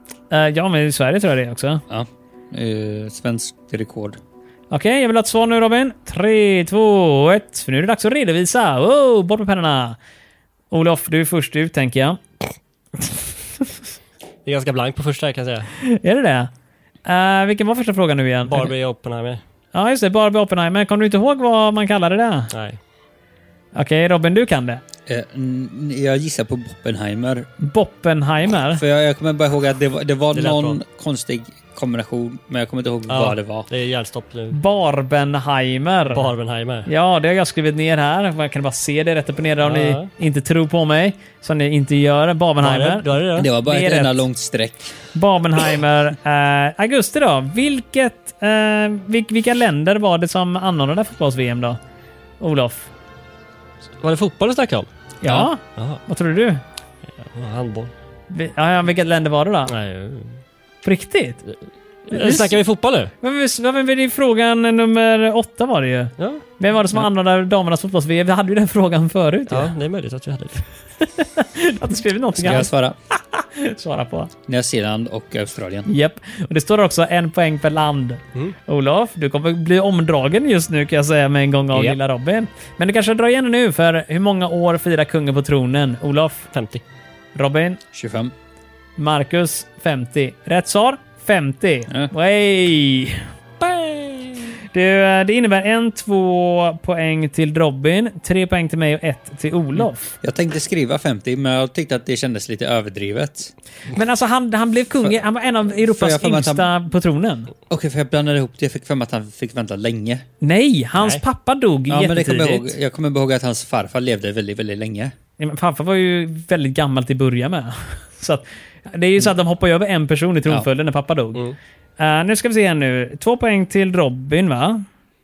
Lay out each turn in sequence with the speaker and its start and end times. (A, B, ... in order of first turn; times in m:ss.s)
0:00.3-0:01.8 A
0:01.9-0:04.2 B
0:04.7-0:10.0 A
0:10.7-0:12.2 A
0:14.5-0:15.7 C
0:15.8-0:16.5 A
0:17.0-0:18.7 A
0:18.5-0:19.4 C
0:19.7-0:22.5 A
0:22.5-0:22.8 C
0:23.8-0:24.8 A
0:25.1-0:27.5 B
0:27.6-0:28.8 A
0:28.8-0:33.7 B
0:30.3-0:30.8 C
0:33.1-0:34.6 C
0:34.5-0:36.3 A
0:36.1-0:36.9 C
0:36.9-0:44.2 A
0:39.6-0:40.1 C
0:42.6-0:43.5 C
0:43.4-0:45.0 B
0:45.1-0:51.8 A
0:52.4-0:52.9 A
0:54.0-0:54.9 C
0:55.2-0:56.6 A
0:55.2-0:55.5 B
0:57.2-0:57.9 C
0:58.3-0:59.7 A
0:59.7-1:00.4 C
1:00.8-1:01.4 A
1:02.1-1:03.1 C
1:02.1-1:02.6 A
1:03.2-1:09.7 A
1:06.2-1:06.4 C
1:09.5-1:10.7 C
1:11.0-1:14.3 A
1:12.4-1:13.0 B
1:14.5-1:15.9 B
1:15.9-1:26.5 A
1:26.5-1:26.8 C
1:27.4-1:27.8 A
1:27.9-1:28.3 B
1:29.0-1:33.2 A
1:33.6-1:34.5 C
1:34.7-1:40.1 A
1:40.2-1:43.5 B
1:43.9-1:47.5 A
1:45.8-1:46.7 B
1:47.7-1:50.2 B
1:50.4-1:52.7 A
1:51.0-1:51.2 C
1:51.9-1:55.1 B
1:55.4-2:01.4 A
2:02.0-2:04.8 A